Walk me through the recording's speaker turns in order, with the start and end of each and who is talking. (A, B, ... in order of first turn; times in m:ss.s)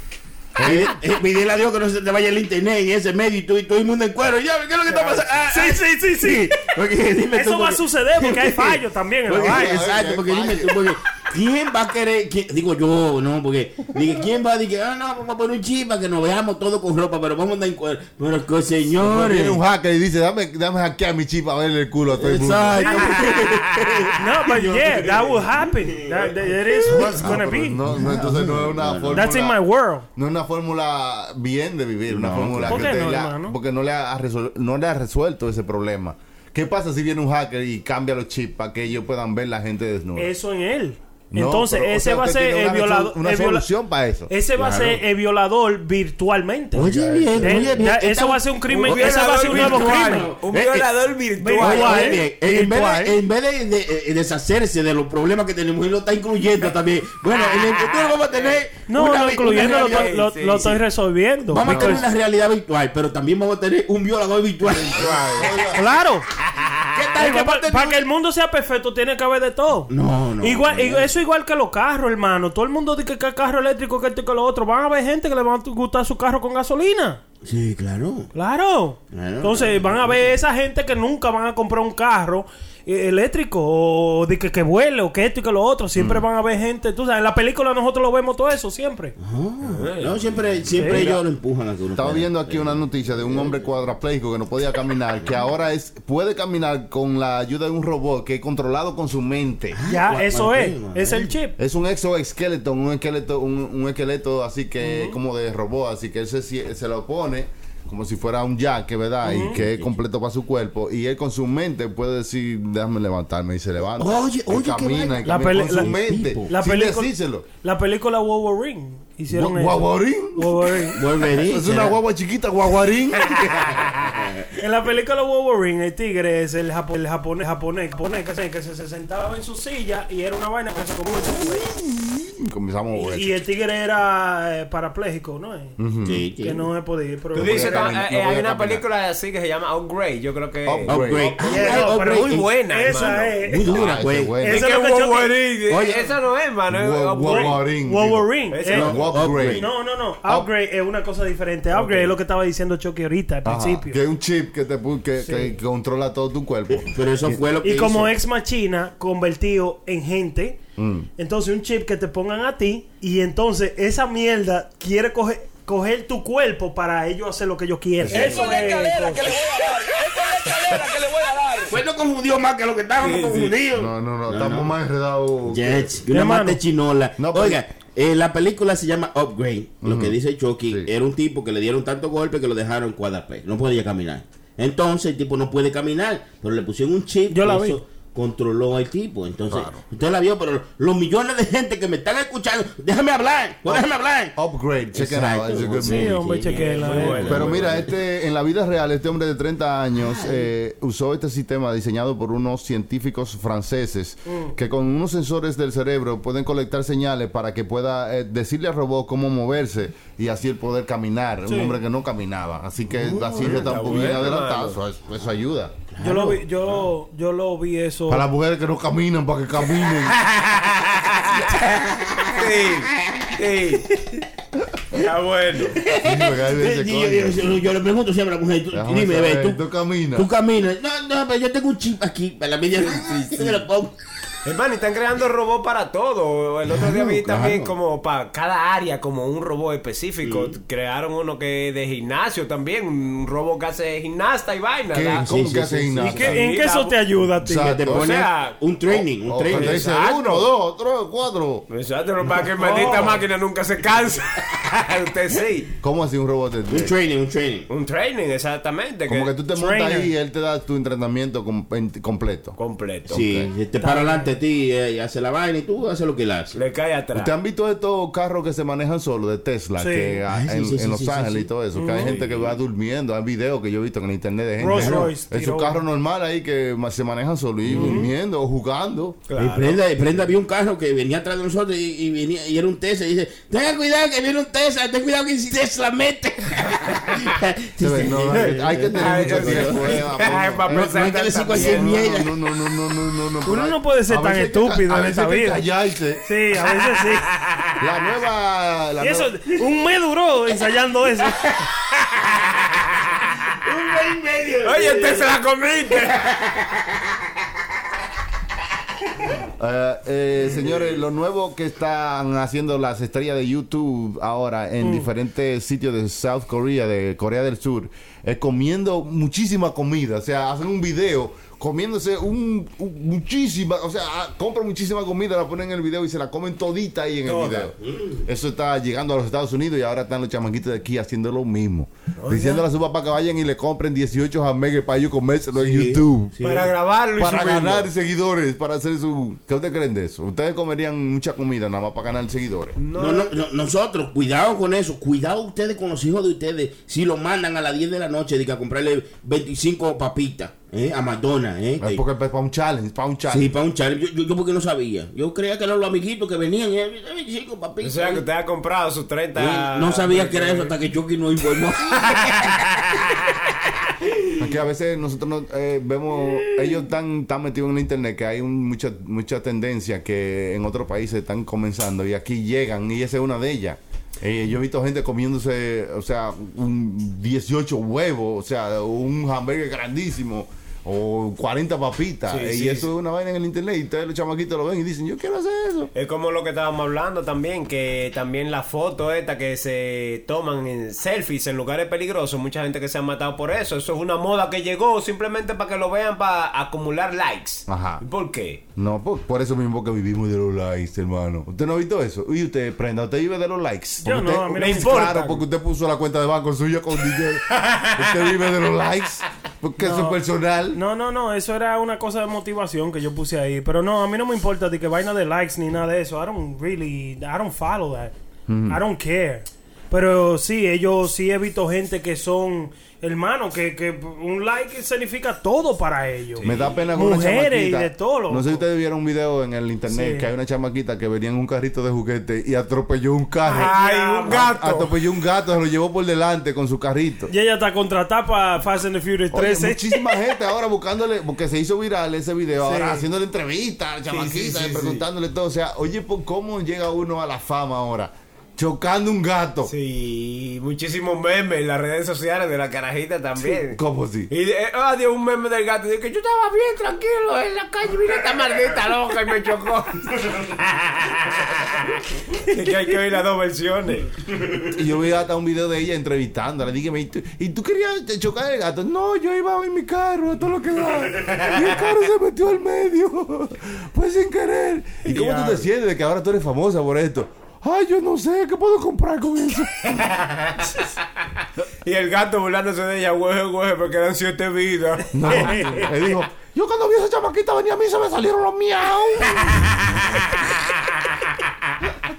0:00.6-0:00.9 A
0:00.6-0:19.6 B
0:05.5-0:06.6 C
0:07.3-0:09.8 C
0:09.4-0:10.8 A
0:19.0-0:23.1 A
0:22.1-0:29.3 B
0:22.8-0:23.1 C
0:24.2-0:27.8 C
0:26.9-0:29.6 A
0:29.1-0:30.0 C
0:30.2-0:40.3 A
0:32.1-0:33.0 B
0:32.7-0:33.6 C
0:40.2-0:43.7 C
0:41.3-0:44.9 A
0:44.3-0:50.2 C
0:44.6-0:44.9 B
0:46.7-0:50.9 B
0:46.8-0:47.8 A
0:48.7-0:52.2 D
0:51.4-0:53.2 C
0:51.5-1:00.2 B
0:57.3-0:58.6 D
0:58.9-1:02.0 C
0:59.5-1:00.8 D
1:01.5-1:05.4 B
1:01.6-1:02.0 A
1:04.7-1:05.9 A
1:05.0-1:05.6 D
1:05.7-1:06.2 C
1:06.9-1:08.0 B
1:07.1-1:17.2 C
1:09.9-1:11.1 B
1:17.4-1:18.3 B
1:18.3-1:29.1 C
1:19.1-1:20.3 B
1:26.0-1:26.2 A
1:29.2-1:33.7 B
1:29.6-1:30.2 D
1:30.7-1:31.0 C
1:30.9-1:31.2 A
1:31.9-1:39.8 A
1:35.2-1:35.4 B
1:39.7-1:41.4 B
1:39.8-1:41.5 C
1:41.6-1:57.4 A
1:44.8-1:45.2 C
1:49.2-1:49.6 C
1:49.2-1:50.0 B
1:53.9-1:56.5 B
1:55.2-1:55.9 C
1:56.5-2:01.0 C
1:59.3-2:03.9 A
2:00.9-2:02.0 B
2:03.8-2:04.4 B
2:04.6-2:11.7 C
2:11.5-2:13.4 A
2:12.9-2:15.8 C
2:15.8-2:16.2 A
2:16.0-2:16.7 B
2:16.4-2:17.9 C
2:17.3-2:18.8 A
2:17.3-2:23.4 D
2:20.6-2:21.4 A
2:20.9-2:22.5 B
2:21.4-2:23.9 C
2:23.4-2:24.4 B
2:23.6-2:24.6 A
2:24.4-2:25.4 C
2:24.5-2:27.6 D
2:25.7-2:26.1 B
2:26.7-2:29.7 A
2:27.2-2:34.0 C
2:28.5-2:29.0 D
2:28.7-2:29.7 B
2:33.4-2:37.4 A
2:35.2-2:35.5 C
2:36.7-2:38.1 B
2:37.6-2:40.6 C
2:40.8-2:41.1 A
2:41.2-2:49.3 C
2:48.0-2:48.5 A
2:48.1-2:51.8 E
2:51.7-2:54.7 B
2:53.0-2:53.5 D
2:53.7-2:56.0 A
2:55.4-3:14.4 B
2:56.1-2:56.6 C
2:57.2-2:57.6 A
2:59.8-3:00.1 A
3:07.3-3:07.8 C
3:09.5-3:09.8 A
3:13.6-3:16.2 A
3:14.9-3:18.0 B
3:15.7-3:17.5 C
3:16.5-3:17.8 D
3:17.2-3:36.3 A
3:19.9-3:20.5 B
3:24.3-3:24.5 C
3:31.4-3:31.8 C
3:33.0-3:34.2 B
3:33.2-3:34.8 D
3:35.9-3:36.8 B
3:36.0-3:38.2 C
3:38.1-3:40.2 A
3:40.2-3:41.6 D
3:41.3-3:43.4 B
3:42.2-3:44.2 D
3:44.9-3:45.8 D
3:45.7-3:49.6 B
3:46.0-3:47.6 A
3:48.7-3:50.3 A
3:50.1-3:53.9 B
3:53.0-3:53.5 D
3:54.4-4:05.3 D
3:56.6-3:57.7 B
4:00.2-4:00.6 B
4:04.9-4:06.4 A
4:05.2-4:06.4 B
4:06.0-4:07.8 C
4:06.1-4:07.0 D
4:07.4-4:08.2 A
4:07.6-4:09.8 B
4:07.9-4:08.6 D
4:08.9-4:11.6 A
4:09.5-4:10.5 D
4:11.7-4:15.7 D
4:12.6-4:13.2 C
4:15.8-4:16.9 A
4:16.7-4:17.7 B
4:17.7-4:19.3 D
4:19.1-4:22.6 A
4:19.5-4:20.1 C
4:22.6-4:23.2 D
4:23.1-4:23.5 A
4:23.1-4:26.6 B
4:23.8-4:24.3 C
4:26.5-4:27.3 D
4:27.1-4:39.2 A
4:29.8-4:30.2 C
4:30.3-4:31.5 B
4:31.7-4:32.5 D
4:32.0-4:32.4 B
4:34.6-4:35.8 C
4:34.7-4:35.1 B
4:37.7-4:38.0 B
4:37.7-4:38.1 C
4:39.3-4:39.8 D
4:39.4-4:52.5 B
4:47.8-4:56.2 A
4:48.3-4:52.1 D
4:53.4-4:55.6 C
4:56.2-4:57.3 C
4:57.3-4:57.7 D
4:57.8-4:59.3 A
4:59.0-5:01.4 C
5:02.2-5:02.8 D
5:03.6-5:05.3 B
5:04.6-5:06.3 D
5:06.0-5:07.1 B
5:09.6-5:36.3 A
5:14.8-5:15.1 C
5:27.2-5:27.7 D
5:27.8-5:28.2 B
5:32.2-5:32.6 D
5:35.5-5:36.7 B
5:36.4-5:37.9 D
5:37.2-5:42.8 A
5:42.8-5:43.4 D
5:42.9-5:52.0 B
5:51.8-5:53.5 A
5:53.2-5:58.2 B
5:57.8-6:00.7 D
5:59.3-6:03.1 B
6:02.0-6:02.8 D
6:03.9-6:04.5 B
6:04.4-6:25.9 A
6:22.3-6:22.9 D
6:25.9-6:38.6 D
6:37.7-6:38.0 A
6:38.8-6:50.8 A
6:44.0-6:45.2 C
6:44.5-6:45.4 D
6:47.5-6:48.4 D
6:49.8-6:50.2 C
6:50.7-6:58.1 C
6:58.5-6:58.8 A
6:58.7-7:08.6 C
7:06.4-7:06.8 D
7:06.4-7:13.7 A
7:09.9-7:10.3 C
7:13.4-7:14.4 C
7:13.5-7:14.9 D
7:14.2-7:17.3 A
7:17.3-7:20.1 C
7:19.3-7:29.7 A
7:22.6-7:23.0 C
7:24.1-7:25.0 D
7:29.6-7:44.1 D
7:33.4-7:34.3 A
7:44.6-8:00.0 A
7:55.0-7:55.7 D
8:01.8-8:05.8 D
8:05.1-8:10.2 A
8:05.4-8:05.7 C